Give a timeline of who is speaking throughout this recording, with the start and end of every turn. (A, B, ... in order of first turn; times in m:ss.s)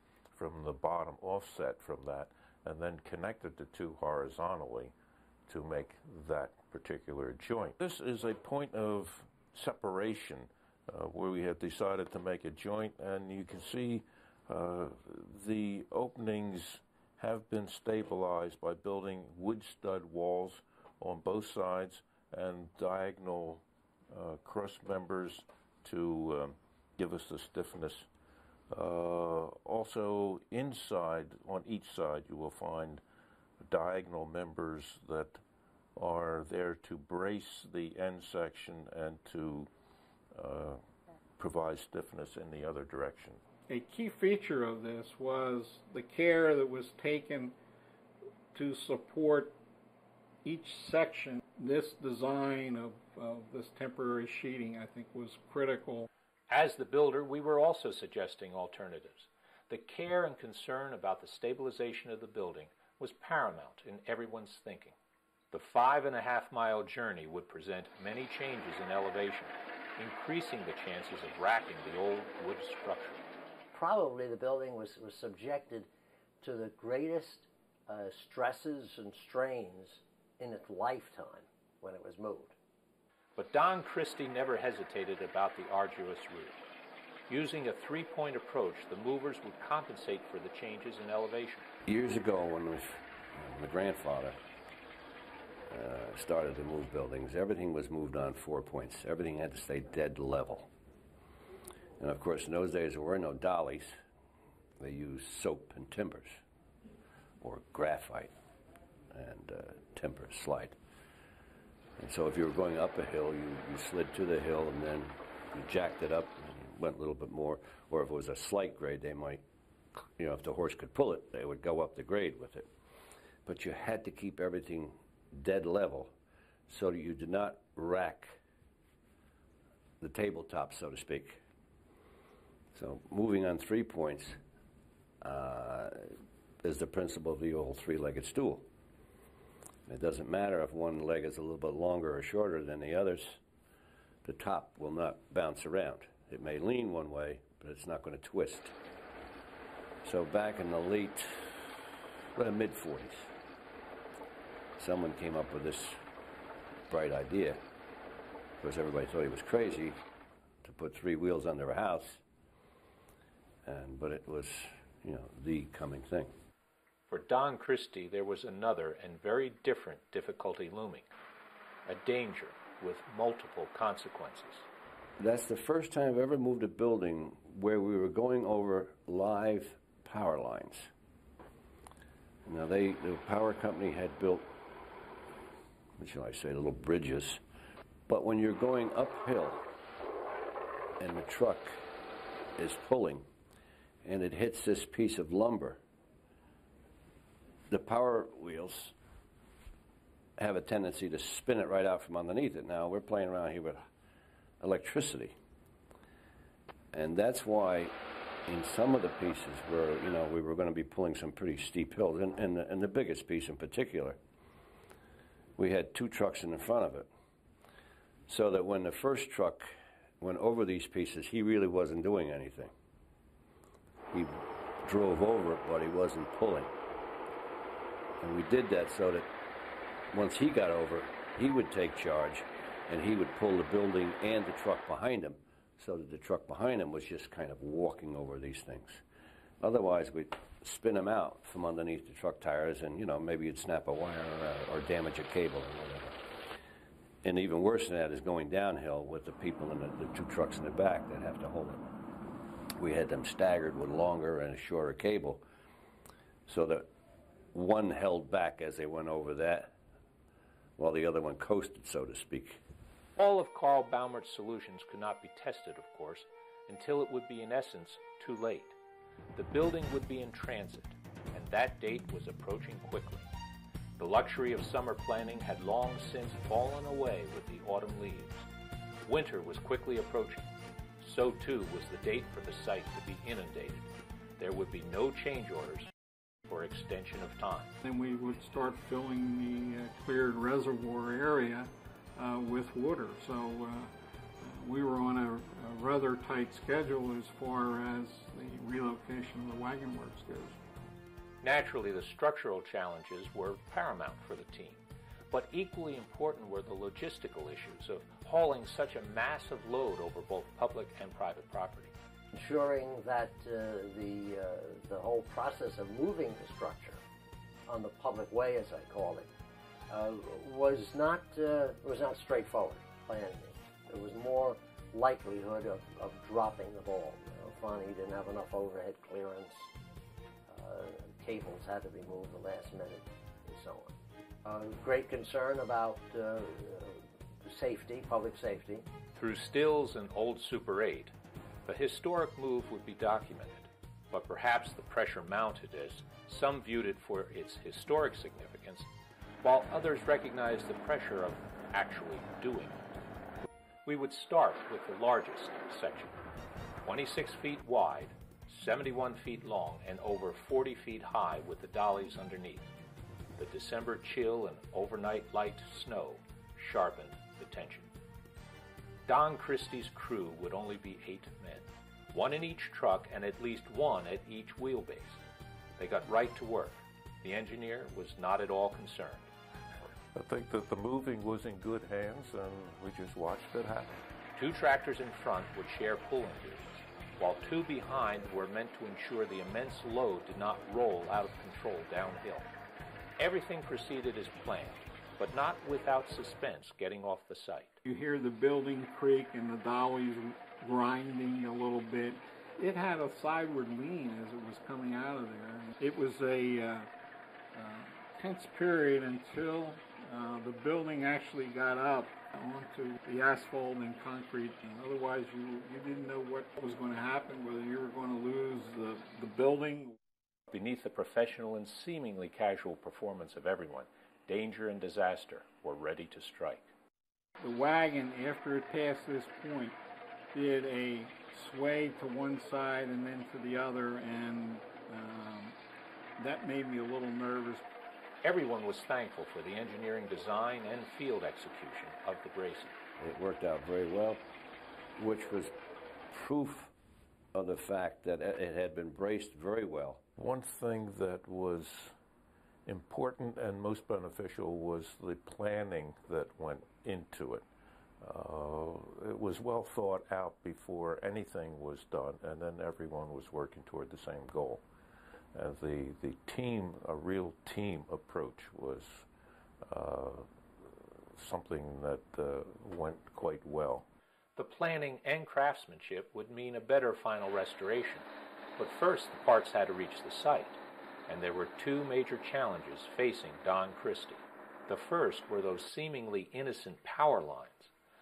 0:00.3-0:04.9 A
0:05.5-0:28.1 A
0:28.7-0:33.0 A
0:33.6-0:35.4 A
0:36.0-0:39.7 A
0:40.3-0:40.8 A
0:41.4-0:43.4 A
0:43.7-0:47.6 B
0:48.5-0:49.6 B
0:50.4-0:56.1 B
0:56.5-1:04.9 C
1:05.5-1:13.2 C
1:13.7-1:15.9 D
1:16.4-1:22.5 D
1:23.4-1:26.6 C
1:27.3-1:31.6 C
1:31.8-1:34.4 E
1:35.7-1:40.7 E
1:42.0-1:44.0 E
1:44.8-1:46.4 E
1:47.4-1:48.3 E
1:49.1-1:50.8 E
1:52.0-1:59.4 E
2:00.2-2:02.7 E
2:03.4-2:06.1 E
2:06.7-2:08.4 E
2:10.0-2:11.4 E
2:12.7-2:14.4 E
2:15.2-2:18.7 E
2:19.9-2:23.4 E
2:24.2-2:28.7 E
2:30.0-2:31.5 E
2:32.4-2:33.3 E
2:34.8-2:36.0 E
2:36.9-2:37.6 E
2:38.6-2:40.0 E
2:40.6-2:42.2 E
2:43.6-2:46.3 E
2:47.1-2:51.1 C
2:51.8-2:54.6 C
2:55.2-3:00.9 E
3:02.4-3:04.5 E
3:06.0-3:07.4 E
3:08.1-3:09.6 E
3:11.0-3:11.8 E
3:12.6-3:13.2 E
3:14.0-3:15.8 E
3:17.7-3:18.9 E
3:20.4-3:23.8 E
3:24.6-3:25.3 E
3:26.9-3:27.9 E
3:28.5-3:34.2 E
3:35.6-3:37.1 E
3:38.3-3:42.7 E
3:44.1-3:46.7 E
3:48.2-3:49.3 E
3:50.1-3:59.0 E
3:59.6-4:06.2 E
4:07.2-4:11.8 E
4:12.7-4:15.4 E
4:16.5-4:16.9 E
4:17.5-4:19.7 E
4:20.8-4:22.6 E
4:23.2-4:28.7 C
4:29.3-4:33.3 C
4:34.0-4:38.5 C
4:39.0-4:45.9 C
4:46.5-4:47.7 C
4:47.8-5:00.6 B
5:01.4-5:11.9 C
5:12.3-5:17.0 D
5:17.7-5:19.3 D
5:19.9-5:29.7 D
5:30.5-5:33.9 D
5:34.4-5:38.8 D
5:39.1-5:41.1 C
5:41.6-5:48.9 C
5:49.4-5:53.0 C
5:53.8-5:56.2 C
5:56.8-6:02.7 C
6:03.4-6:07.9 C
6:09.0-6:15.2 C
6:15.8-6:19.3 C
6:20.1-6:24.0 A
6:24.4-6:32.5 C
6:33.2-6:37.8 C
6:37.8-6:46.9 B
6:47.5-7:00.0 B
7:00.5-7:06.7 C
7:07.4-7:09.8 B
7:10.3-7:15.6 B
7:16.2-7:17.6 B
7:18.2-7:22.8 C
7:23.0-7:24.2 E
7:25.0-7:25.5 E
7:26.1-7:26.7 E
7:27.3-7:30.0 E
7:30.2-7:31.9 A
7:32.6-7:37.4 A
7:38.0-7:44.6 A
7:45.3-7:49.0 A
7:49.7-7:50.3 A
7:51.1-7:53.8 A
7:54.4-7:58.0 C
7:58.6-8:07.7 C